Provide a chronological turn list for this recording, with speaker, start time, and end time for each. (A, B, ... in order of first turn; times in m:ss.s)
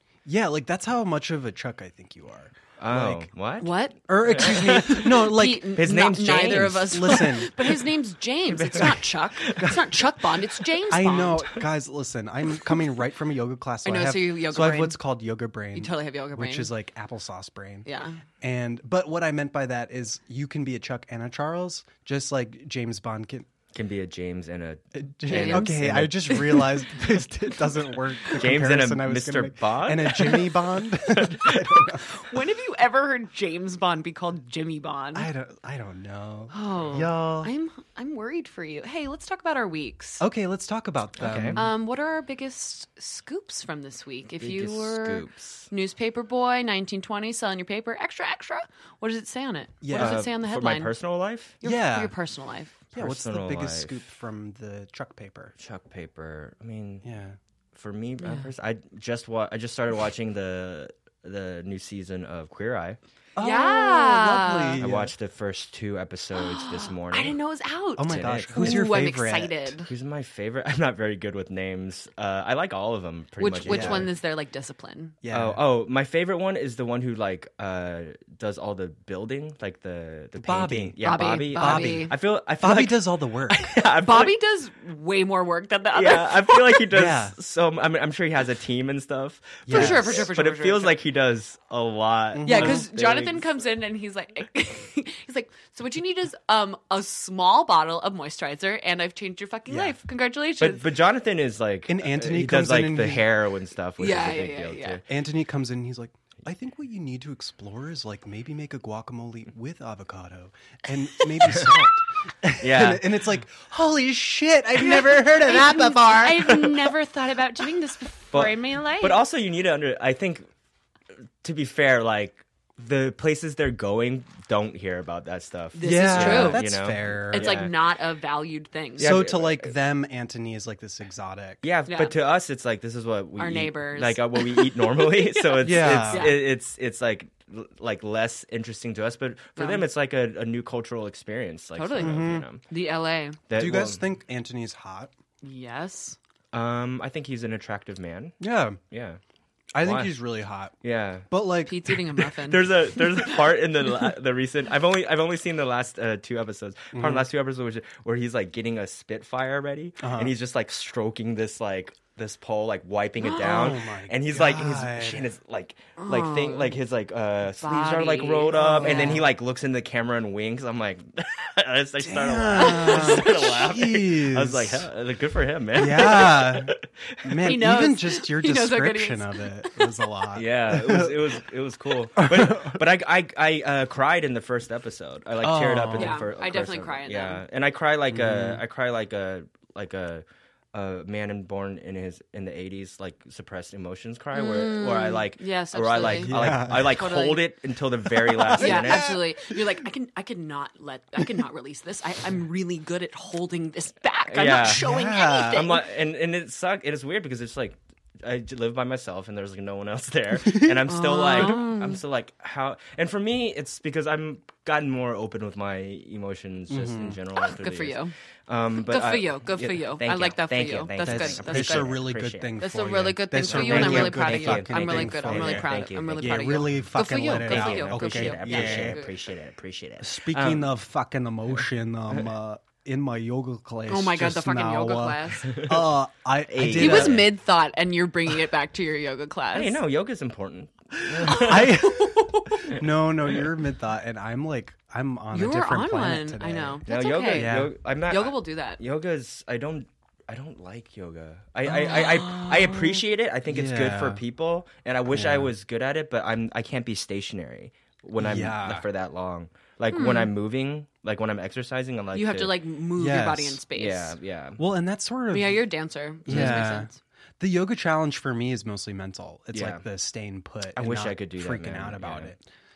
0:00.2-0:03.3 A
0:02.8-0:07.5 B
0:03.6-0:11.5 C
0:04.1-0:07.7 A
0:08.5-0:09.9 B
0:08.7-0:09.0 A
0:10.9-0:17.9 A
0:13.8-0:15.0 C
0:15.7-0:16.7 C
0:17.8-0:18.2 C
0:18.4-0:23.5 A
0:23.7-0:26.8 B
0:24.9-0:32.2 A
0:25.3-0:26.7 C
0:28.3-0:32.0 B
0:32.0-0:35.3 C
0:35.1-0:37.5 A
0:36.5-0:40.2 C
0:40.2-0:41.7 A
0:41.2-0:41.6 B
0:41.6-0:50.9 C
0:44.4-0:45.7 B
0:49.8-0:50.2 A
0:49.9-0:51.6 B
0:51.6-0:52.8 C
0:51.6-0:52.1 A
0:52.9-0:55.5 A
0:52.9-0:54.0 B
0:55.6-0:57.0 B
0:57.0-0:57.4 A
0:57.7-1:03.0 B
0:58.2-0:58.5 C
1:03.4-1:05.1 A
1:03.4-1:04.8 C
1:04.8-1:07.4 B
1:06.4-1:09.9 C
1:08.0-1:09.7 A
1:08.0-1:08.8 B
1:09.9-1:14.1 B
1:13.4-1:15.1 C
1:13.6-1:14.1 A
1:15.2-1:15.6 A
1:15.3-1:24.4 B
1:20.4-1:23.7 A
1:21.0-1:22.1 C
1:24.0-1:26.8 C
1:25.9-1:33.4 B
1:26.9-1:27.4 A
1:29.6-1:30.2 A
1:29.7-1:31.0 C
1:32.3-1:32.8 A
1:32.4-1:40.9 C
1:39.7-1:40.0 A
1:40.6-1:45.0 B
1:41.9-1:43.3 A
1:44.0-1:45.0 C
1:45.1-1:56.6 A
1:51.2-1:51.6 C
1:51.5-1:51.8 B
1:52.6-1:53.2 B
1:54.8-1:59.2 C
1:56.4-1:56.8 B
1:58.3-2:00.5 B
2:01.4-2:07.7 B
2:05.7-2:06.7 C
2:05.8-2:07.6 A
2:07.3-2:09.1 C
2:09.0-2:09.7 B
2:09.0-2:11.6 A
2:11.6-2:22.6 B
2:11.9-2:12.1 C
2:13.4-2:16.4 C
2:15.6-2:16.4 A
2:19.6-2:19.9 C
2:21.7-2:23.4 C
2:22.0-2:22.5 A
2:23.5-2:24.0 B
2:23.5-2:25.1 A
2:25.4-2:26.2 C
2:26.5-2:28.4 B
2:28.4-2:28.8 A
2:28.9-2:29.2 B
2:29.7-2:30.7 A
2:29.8-2:30.1 B
2:30.8-2:31.3 B
2:31.3-2:32.2 A
2:31.6-2:33.5 C
2:32.4-2:57.6 B
2:36.9-2:37.3 A
2:40.0-2:40.3 A
2:43.4-2:45.3 A
2:46.0-2:46.8 C
2:47.6-2:49.2 C
2:48.5-2:49.3 A
2:52.0-2:54.9 A
2:52.5-2:53.5 C
2:55.7-3:01.4 A
2:57.4-2:59.8 C
3:00.3-3:19.2 B
3:02.2-3:02.8 A
3:05.4-3:06.2 A
3:05.9-3:07.4 C
3:08.1-3:08.6 A
3:14.3-3:17.4 C
3:16.0-3:17.0 A
3:18.1-3:19.6 A
3:18.6-3:25.8 C
3:24.3-3:24.9 B
3:24.6-3:25.7 A
3:25.5-3:42.5 B
3:30.4-3:30.8 A
3:30.9-3:32.0 C
3:36.7-3:37.2 A
3:37.4-3:38.1 C
3:38.8-3:41.9 C
3:41.0-3:49.0 A
3:42.6-3:49.1 C
3:43.4-3:50.7 B
3:50.0-3:57.3 A
3:53.9-3:55.6 C
3:55.5-3:55.8 B
3:56.5-3:57.3 B
3:56.7-3:59.8 C
3:59.5-4:02.1 B
4:01.0-4:06.8 A
4:01.3-4:02.5 C
4:02.6-4:03.5 B
4:05.3-4:08.8 C
4:06.9-4:22.5 B
4:07.3-4:07.7 A
4:11.7-4:12.5 A
4:11.9-4:12.9 C
4:13.5-4:14.2 A
4:15.1-4:15.5 A
4:18.2-4:18.9 A
4:19.9-4:20.3 C
4:22.1-4:24.2 C
4:23.0-4:23.6 A
4:23.7-4:24.6 B
4:24.6-4:25.6 A
4:25.3-4:27.0 C
4:26.2-4:26.7 B
4:26.3-4:32.4 A
4:29.5-4:29.8 B
4:30.7-4:32.3 B